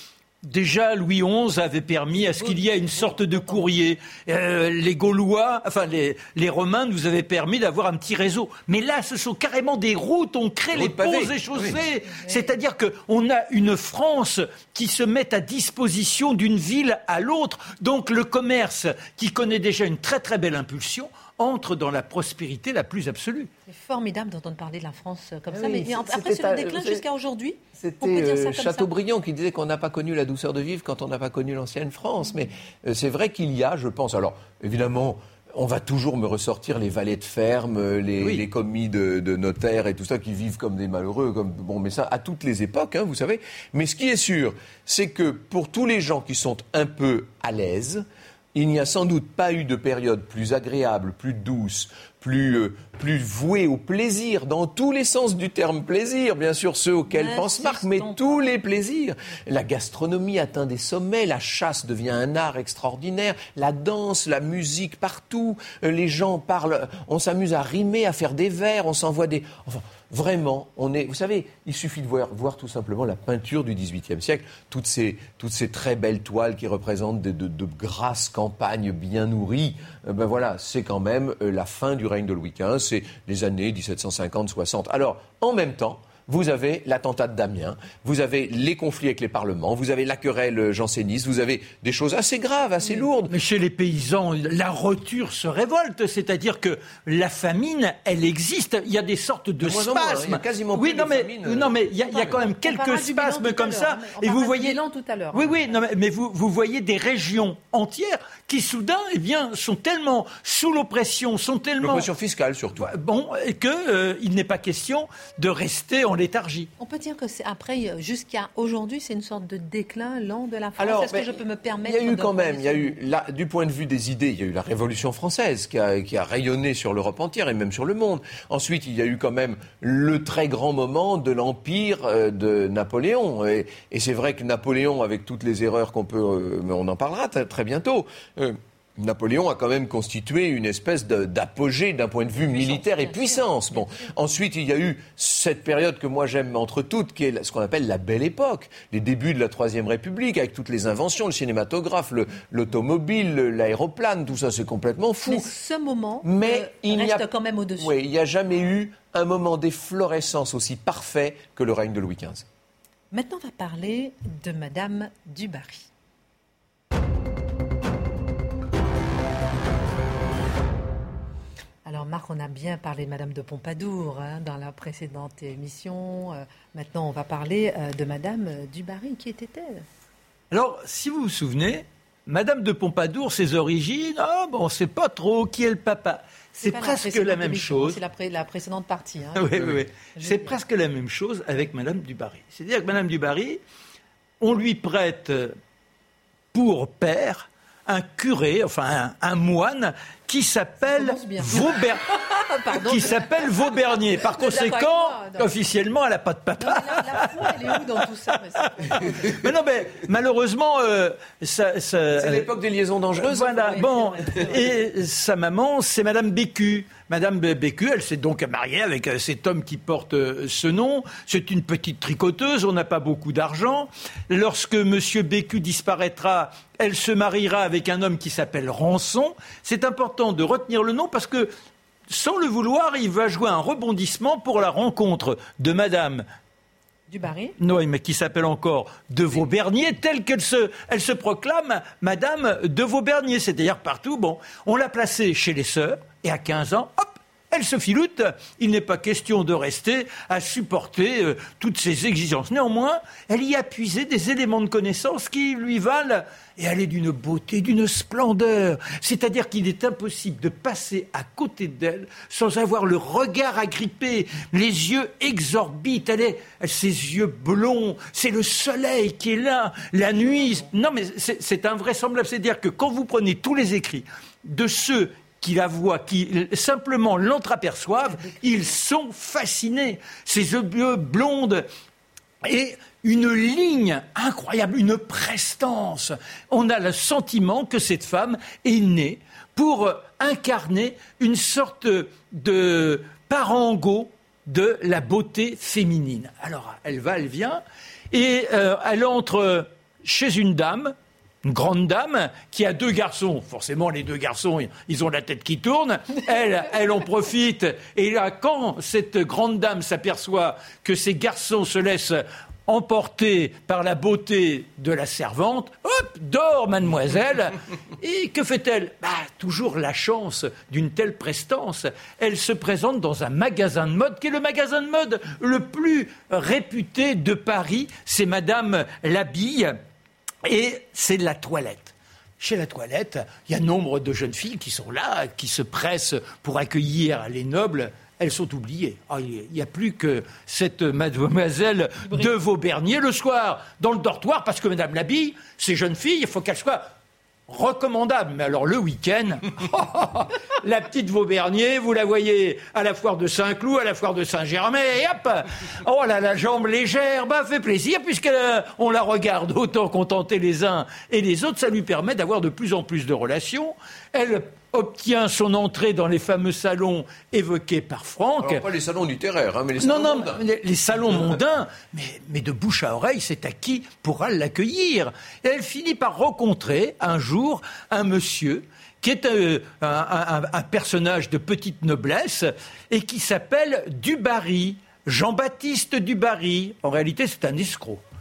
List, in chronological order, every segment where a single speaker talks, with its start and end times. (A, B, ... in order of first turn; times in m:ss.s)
0:00.4-0:23.5 A
0:02.4-0:03.6 B
0:10.7-0:11.8 C
0:12.1-0:12.5 B
0:23.7-0:28.9 B
0:25.5-0:27.0 C
0:27.8-1:33.3 C
0:57.1-0:58.4 B
1:33.3-1:44.8 A
1:39.6-1:42.4 C
1:42.2-1:45.7 B
1:45.3-1:52.1 A
1:51.8-1:52.9 C
1:52.8-1:56.7 A
1:56.8-2:03.0 B
2:00.8-2:35.5 C
2:22.5-2:24.1 B
2:35.2-2:37.9 B
2:36.2-2:37.3 C
2:37.8-2:42.4 C
2:43.1-2:45.9 B
2:51.8-2:59.8 B
3:00.5-3:08.0 A
3:06.6-3:10.6 B
3:09.3-3:13.6 A
3:14.4-3:15.6 A
3:16.5-3:22.0 A
3:20.8-3:23.7 B
3:22.6-3:27.8 A
3:24.2-3:25.5 B
3:26.6-3:29.4 B
3:28.8-3:32.5 A
3:32.2-3:33.6 C
3:33.2-3:51.5 A
3:33.3-3:34.7 B
3:52.1-3:56.2 A
3:57.1-3:57.6 B
3:57.6-4:41.6 A
4:30.2-4:30.7 B
4:38.0-4:38.7 B
4:42.4-5:29.8 A
5:30.4-5:46.8 A
5:47.5-6:08.6 A
6:08.4-6:10.4 C
6:09.8-6:28.0 A